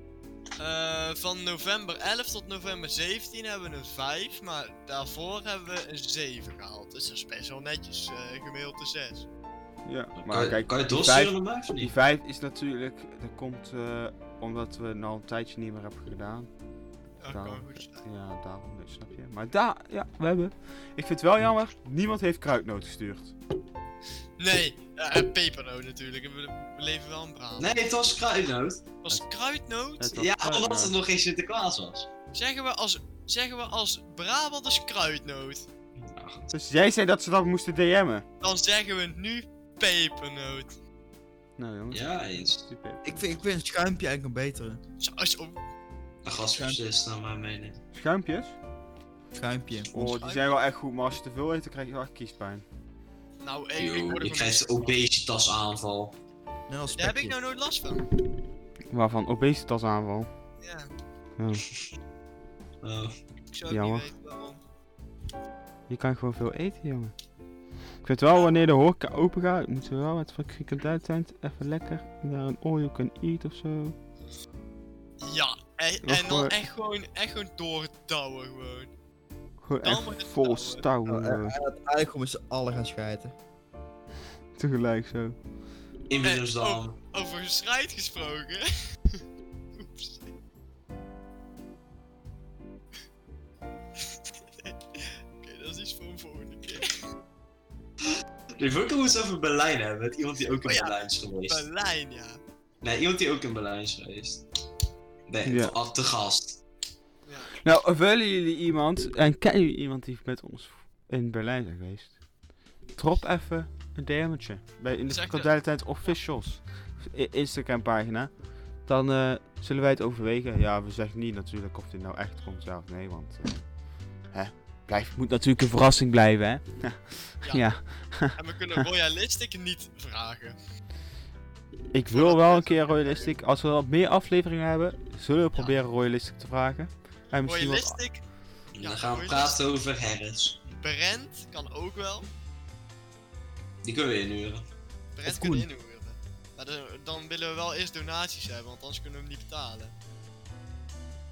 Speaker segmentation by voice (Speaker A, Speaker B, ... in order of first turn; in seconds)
Speaker A: 0.6-9.3, 17.2-18.1, 24.4-27.8, 29.0-30.2, 32.3-35.7, 38.4-40.7, 45.0-45.6, 50.2-50.5, 53.4-55.0, 56.9-58.1, 60.6-60.9, 63.5-64.6, 75.2-78.9, 79.8-80.8, 86.2-89.2, 89.8-90.3, 94.1-97.1, 100.7-102.4, 107.2-107.5, 115.1-115.5, 127.4-127.7, 128.3-130.6, 132.1-133.3, 137.5-138.2, 138.8-139.6, 140.7-142.3, 145.2-149.9
Speaker B: 9.8-16.5, 17.3-23.4, 30.0-31.0, 36.5-38.2, 41.6-43.2, 47.9-48.6, 49.9-52.6, 58.9-60.3, 61.4-61.7, 63.7-64.1, 65.9-67.1, 68.0-74.0, 76.0-76.6, 79.6-81.5, 84.6-85.4, 105.5-105.8, 107.6-112.2, 113.0-118.3, 118.9-123.6, 124.3-128.8, 131.9-138.0
Speaker C: 10.2-11.9, 27.6-28.8, 30.1-32.1, 36.0-36.5, 41.9-42.6, 46.2-47.8, 53.8-56.2, 62.8-63.2, 86.1-87.0, 98.6-101.6, 102.8-104.5, 105.3-106.6, 138.7-140.6, 143.8-144.7
Speaker D: 43.0-44.8, 46.5-46.8, 49.3-50.2, 56.7-57.4, 81.1-83.3, 145.2-145.7